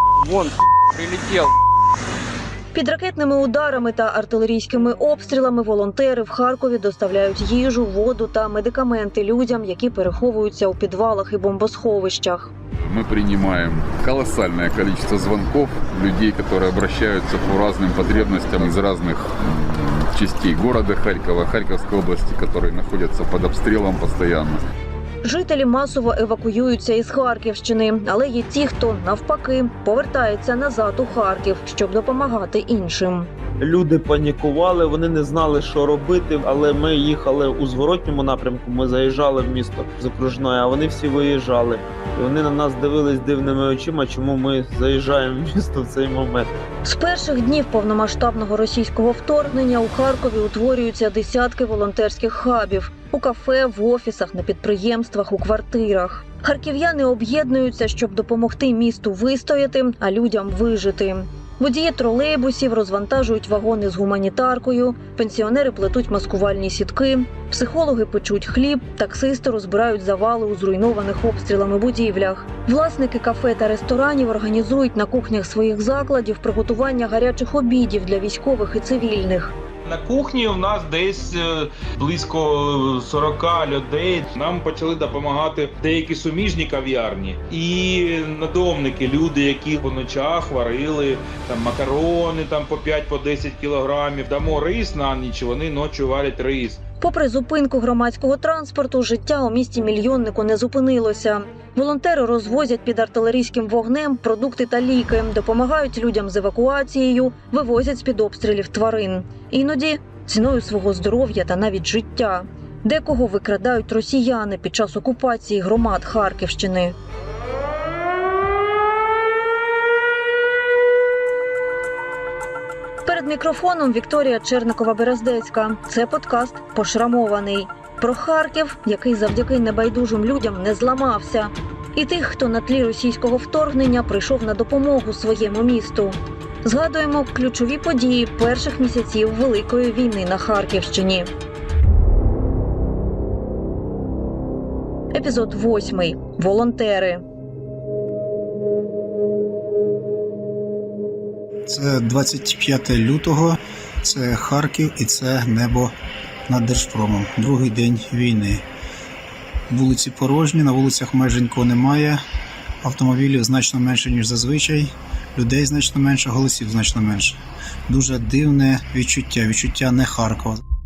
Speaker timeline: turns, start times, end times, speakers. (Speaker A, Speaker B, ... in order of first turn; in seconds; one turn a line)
Speaker A: 2.7-12.5
Speaker B: 12.8-24.6
Speaker A: 25.2-33.3
Speaker C: 33.6-46.5
Speaker A: 46.8-79.5
Speaker D: 79.8-96.8
Speaker A: 97.0-117.0
Speaker A: 123.0-141.3
Speaker A: 145.1-147.2
Speaker E: 151.7-155.9
Speaker E: 156.5-158.6
Speaker E: 159.7-162.2
Speaker E: 162.8-170.6